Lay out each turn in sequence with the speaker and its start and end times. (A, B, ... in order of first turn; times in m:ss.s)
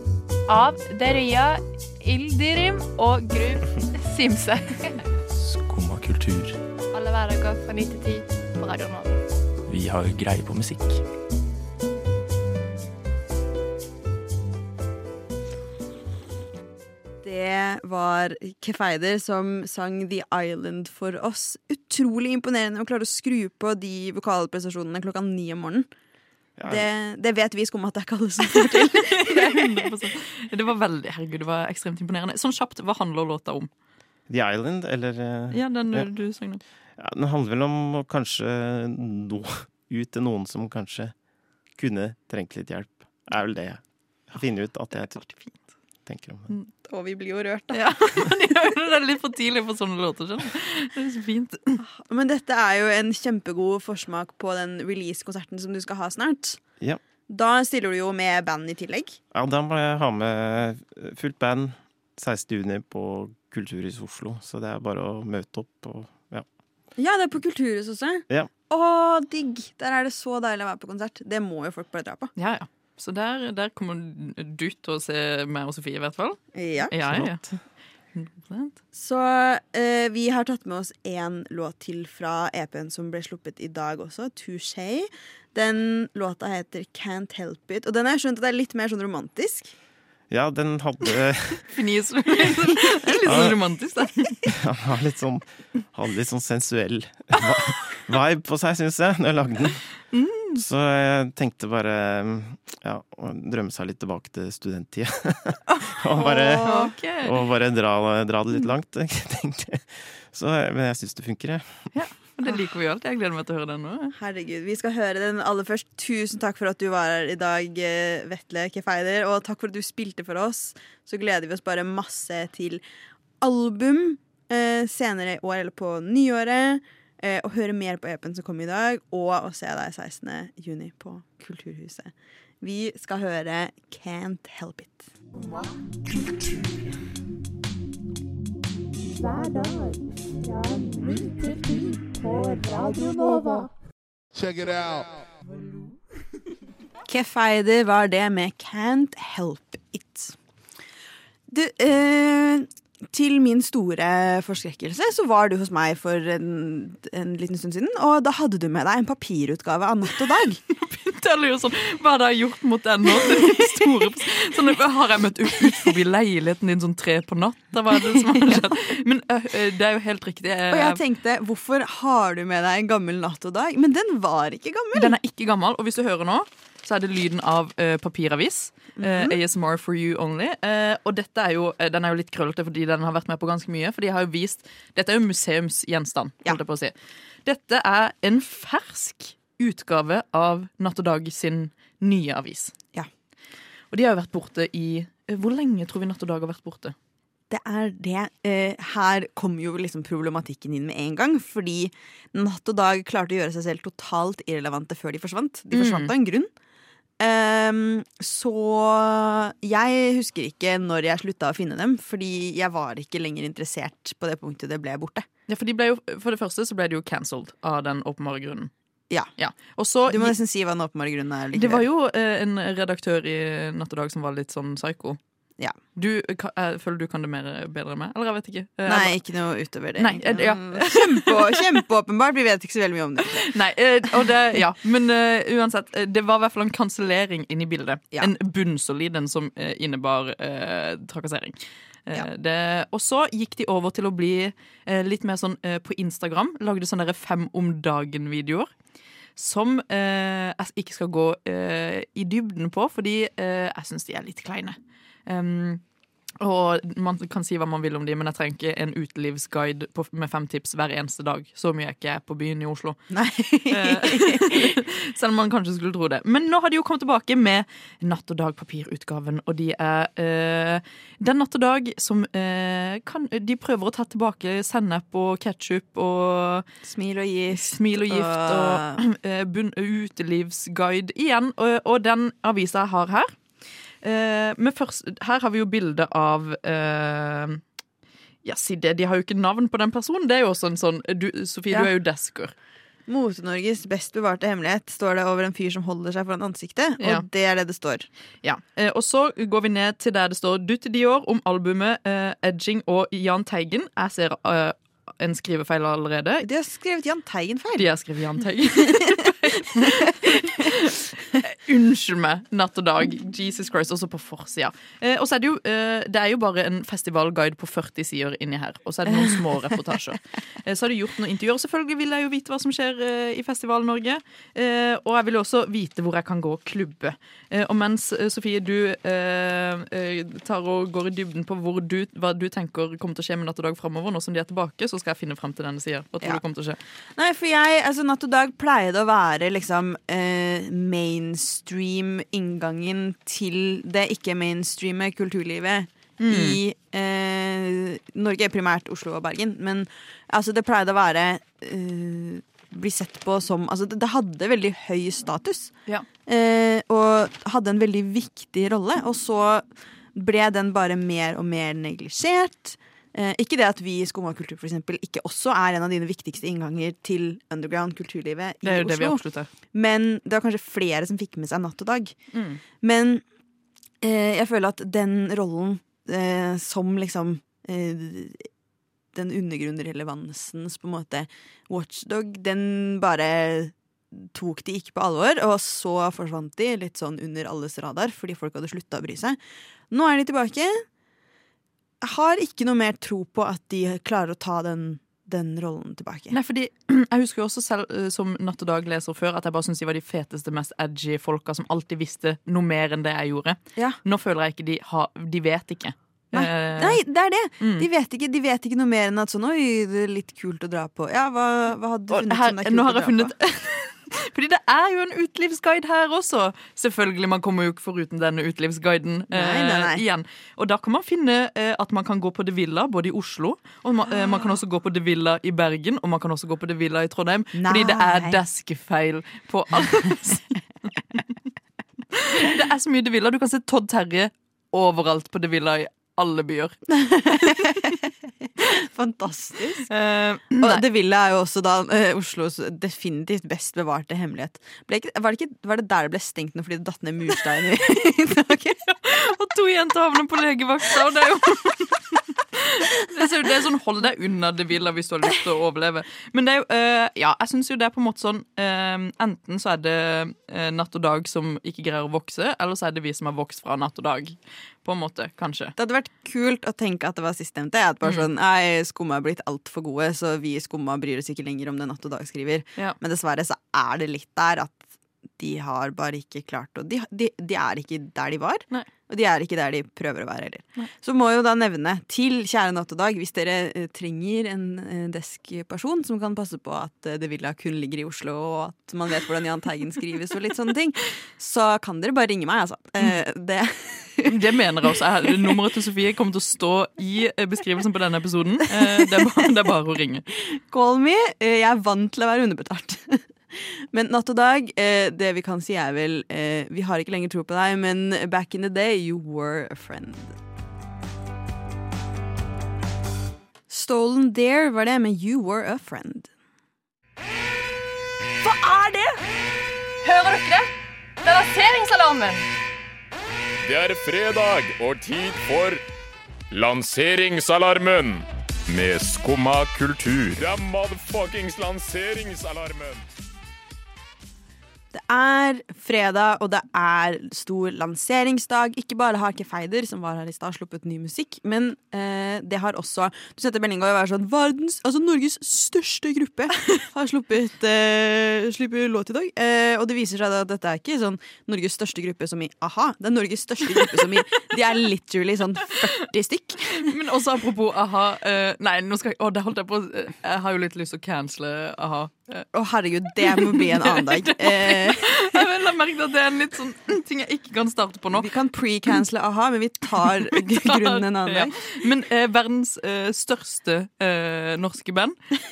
0:00.5-0:05.0 A
0:05.3-0:06.6 B
0:06.9-0:09.2 A
0:09.7-0:11.0 B
0:17.2-0:25.9 C
0:26.6-0:26.9 D
0:26.7-0:29.8 C
0:28.6-0:33.7 E
0:34.3-0:36.1 D
0:35.5-0:36.6 E
0:37.0-0:41.2 D
0:41.8-0:45.2 D
0:45.2-0:45.6 E
0:46.1-0:46.5 D
0:46.8-0:47.9 C
0:47.7-0:51.8 E
0:51.8-0:56.6 C
0:57.3-0:59.2 C
0:59.3-1:06.5 D
1:07.0-1:12.3 C
1:12.4-1:17.5 E
1:16.5-1:16.9 C
1:17.1-1:17.5 D
1:18.1-1:18.8 E
1:18.9-1:29.7 C
1:30.3-1:31.7 D
1:31.7-1:34.4 E
1:33.3-1:33.6 D
1:34.5-1:39.8 D
1:37.4-1:38.0 E
1:40.1-1:40.6 E
1:40.6-1:51.9 D
1:46.3-1:46.9 C
1:46.6-1:47.3 E
1:51.9-1:54.1 E
1:54.2-2:02.8 C
2:03.4-2:15.1 C
2:27.1-2:30.4 C
2:31.5-2:40.6 C
2:40.7-2:51.0 E
2:43.2-2:43.8 C
2:45.6-2:45.9 C
2:48.2-2:48.6 C
2:50.7-2:55.2 C
2:55.0-3:06.9 E
2:59.0-2:59.4 C
3:07.4-3:12.7 E
3:13.9-3:17.0 E
3:17.5-3:26.5 C
3:25.7-3:26.1 E
3:27.2-3:35.3 C
3:35.5-3:38.7 E
3:39.4-3:40.4 E
3:40.1-3:41.8 C
3:41.5-3:45.2 E
3:46.0-3:49.1 E
3:48.9-3:53.5 C
3:50.0-3:51.6 E
3:53.4-4:08.7 E
4:09.4-4:15.8 E
4:16.4-4:23.1 E
4:23.1-4:24.8 C
4:23.7-4:36.7 E
4:36.8-4:39.0 C
4:37.5-4:43.4 E
4:44.0-4:47.6 E
4:48.4-4:52.5 E
4:53.1-4:58.1 C
4:57.0-4:57.2 E
4:58.4-5:06.5 E
5:06.4-5:07.9 C
5:07.8-5:36.8 E
5:37.2-5:55.8 C
5:46.2-5:46.6 E
5:56.3-6:12.2 C
6:08.6-6:09.5 E
6:12.3-6:12.6 E
6:12.8-6:13.2 C
6:14.0-6:18.5 C
6:19.1-6:29.4 C
6:29.9-6:30.8 C
6:32.0-6:36.4 C
6:36.3-6:47.0 E
6:46.3-6:53.4 C
6:47.6-6:47.9 E
6:52.1-7:11.3 E
6:59.3-7:00.0 C
7:07.6-7:08.4 C
7:12.1-7:16.8 E
7:16.9-7:18.1 C
7:18.6-7:19.9 C
7:19.9-7:20.8 E
7:20.6-7:28.8 C
7:28.9-7:45.7 E
7:45.8-7:54.8 C
7:55.4-8:14.4 C
8:14.3-8:20.3 E
8:18.8-8:19.1 C
8:20.3-8:30.4 C
8:33.7-8:36.3 C
8:38.4-8:39.2 C
8:43.7-8:45.8 F
8:46.5-8:53.0 F
8:54.9-9:16.9 C
9:16.8-9:22.5 E
9:22.5-9:25.4 C
9:23.2-9:28.3 E
9:28.1-9:31.6 C
9:30.6-9:35.2 E